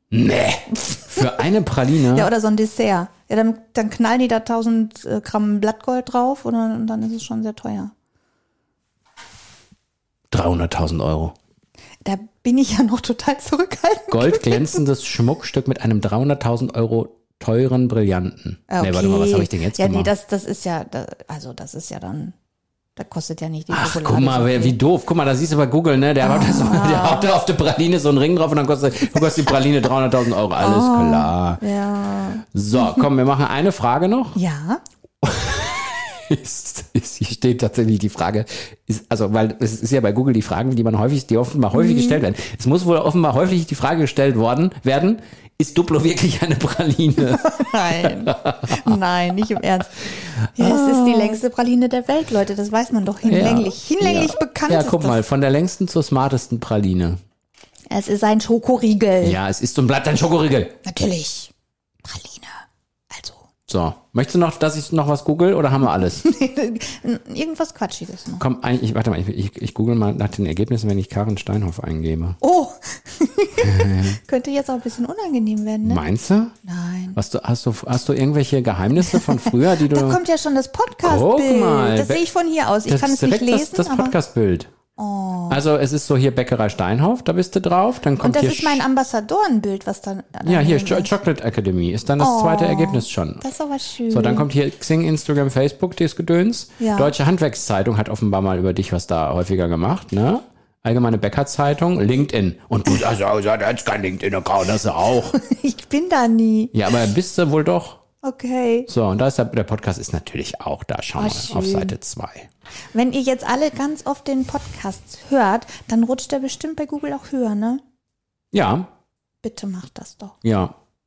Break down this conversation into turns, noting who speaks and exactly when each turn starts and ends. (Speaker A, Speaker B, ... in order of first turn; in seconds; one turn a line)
Speaker A: 0.1-2.3
Speaker B: 0.9-1.2
Speaker B: 2.1-7.9
Speaker A: 10.3-11.3
Speaker B: 12.0-14.8
Speaker A: 14.1-20.1
Speaker B: 18.7-22.4
Speaker B: 23.0-24.8
Speaker A: 23.7-31.6
Speaker B: 26.2-27.4
Speaker B: 30.6-33.0
Speaker A: 32.5-34.4
Speaker B: 34.3-34.8
Speaker A: 35.2-48.9
Speaker B: 41.7-42.2
Speaker B: 47.3-55.2
Speaker A: 50.6-51.4
Speaker A: 53.3-57.2
Speaker B: 57.9-59.4
Speaker A: 59.2-60.8
Speaker B: 60.8-61.5
Speaker B: 62.0-63.5
Speaker A: 63.7-66.2
Speaker B: 66.1-68.4
Speaker A: 68.4-72.4
Speaker B: 72.4-76.0
Speaker A: 73.6-74.2
Speaker A: 75.8-76.5
Speaker B: 76.6-77.2
Speaker A: 77.2-80.2
Speaker B: 79.1-84.2
Speaker A: 81.0-82.3
Speaker A: 82.9-84.7
Speaker B: 85.0-85.6
Speaker A: 85.5-88.8
Speaker B: 88.2-91.2
Speaker A: 90.4-93.4
Speaker B: 92.2-94.5
Speaker A: 94.1-105.4
Speaker B: 96.8-97.2
Speaker B: 105.3-106.9
Speaker A: 106.7-108.0
Speaker B: 108.2-108.9
Speaker A: 108.9-112.5
Speaker B: 111.2-112.0
Speaker B: 112.9-117.8
Speaker A: 118.5-118.9
Speaker B: 119.4-120.4
Speaker A: 120.4-120.7